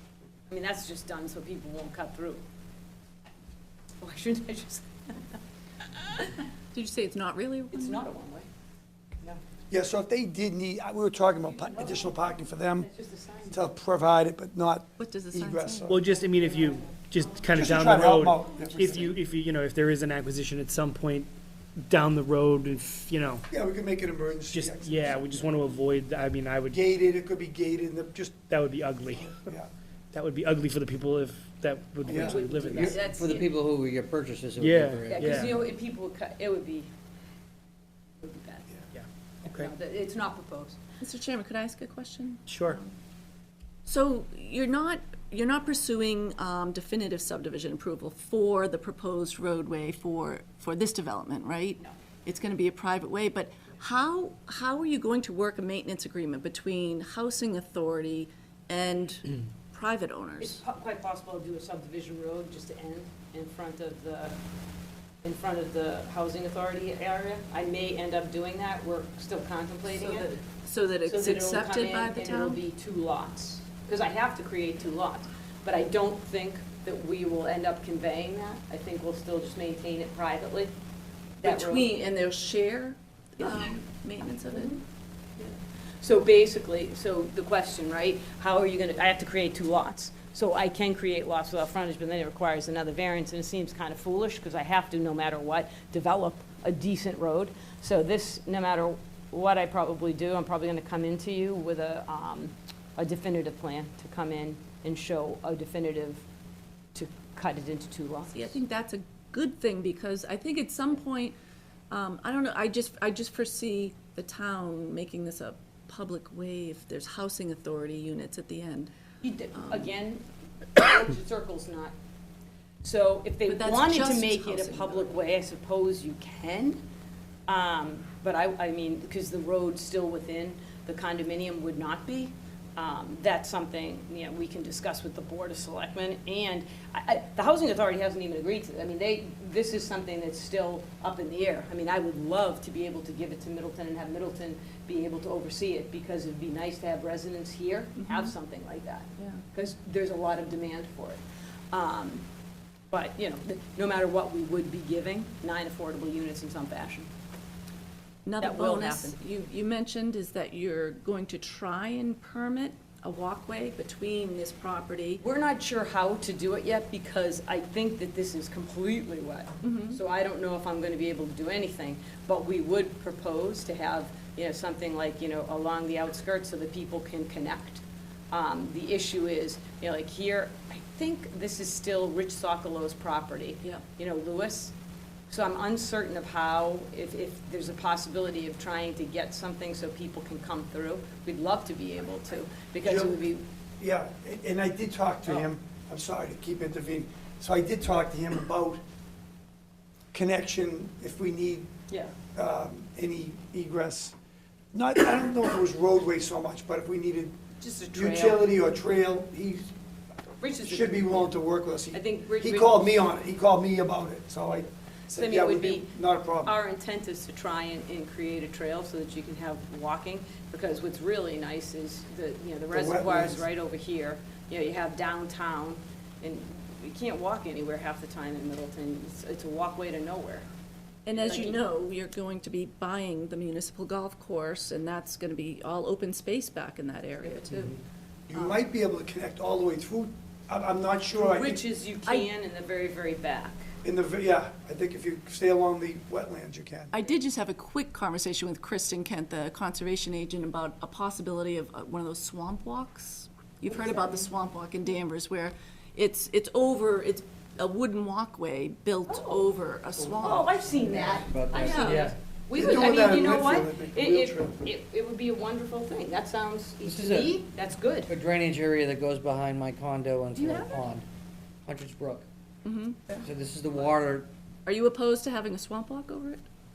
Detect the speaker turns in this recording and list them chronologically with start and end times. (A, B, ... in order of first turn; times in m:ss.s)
0:00.5-0:02.4 A
0:04.0-0:05.4 A
0:06.0-0:06.3 A
0:06.7-0:08.1 B
0:07.7-0:08.5 A
0:09.7-0:12.9 C
0:11.5-0:12.2 A
0:12.8-0:13.7 A
0:13.5-0:16.0 C
0:15.0-0:16.0 B
0:15.9-0:23.5 D
0:16.1-0:16.8 A
0:17.5-0:19.1 C
0:23.5-0:25.5 C
0:24.5-0:26.8 D
0:26.7-0:28.4 C
0:28.5-0:29.5 D
0:29.2-0:29.7 C
0:30.1-0:33.0 D
0:32.1-0:32.5 C
0:32.1-0:33.0 A
0:32.7-0:33.5 B
0:33.0-0:35.6 E
0:34.6-0:35.6 D
0:35.1-0:36.9 A
0:38.2-0:38.7 A
0:39.0-0:39.7 D
0:39.4-0:40.8 A
0:41.0-0:42.9 B
0:42.5-0:42.8 D
0:43.9-1:00.6 B
1:00.4-1:04.4 A
1:05.2-1:10.5 A
1:09.9-1:12.6 B
1:11.0-1:20.7 A
1:21.4-1:21.9 A
1:21.4-1:24.8 B
1:24.5-1:24.8 A
1:25.4-1:46.2 A
1:46.9-1:48.6 A
1:48.3-1:51.4 B
1:51.9-1:58.9 B
1:59.2-2:00.2 A
1:59.5-1:59.9 B
2:00.8-2:01.9 A
2:02.8-2:06.8 A
2:03.5-2:05.2 B
2:07.5-2:31.2 A
2:28.0-2:28.3 B
2:31.7-2:32.2 A
2:32.9-2:37.1 A
2:38.3-2:45.2 B
2:38.4-2:39.2 A
2:45.2-3:04.7 A
2:49.6-2:50.0 B
3:05.3-3:13.4 A
3:12.8-3:13.2 C
3:13.8-3:18.8 C
3:20.1-3:21.7 C
3:22.3-3:24.2 C
3:24.7-3:27.4 C
3:27.6-3:28.5 A
3:27.9-3:29.7 C
3:30.4-3:31.4 A
3:30.6-3:36.6 C
3:31.9-3:33.0 A
3:35.1-3:50.4 A
3:42.7-3:43.5 C
3:51.1-3:57.7 B
3:51.2-3:51.6 A
3:57.2-3:57.7 A
3:58.3-4:01.6 C
4:01.1-4:03.7 A
4:03.8-4:06.9 C
4:06.9-4:20.5 B
4:13.7-4:14.3 A
4:19.1-4:19.5 A
4:20.1-4:28.1 A
4:20.4-4:22.2 E
4:21.5-4:22.1 B
4:22.5-4:24.7 C
4:26.8-4:27.4 E
4:28.1-4:31.0 E
4:30.4-4:30.7 B
4:31.7-4:32.3 E
4:32.6-4:33.2 B
4:33.2-4:34.3 E
4:34.7-4:36.4 B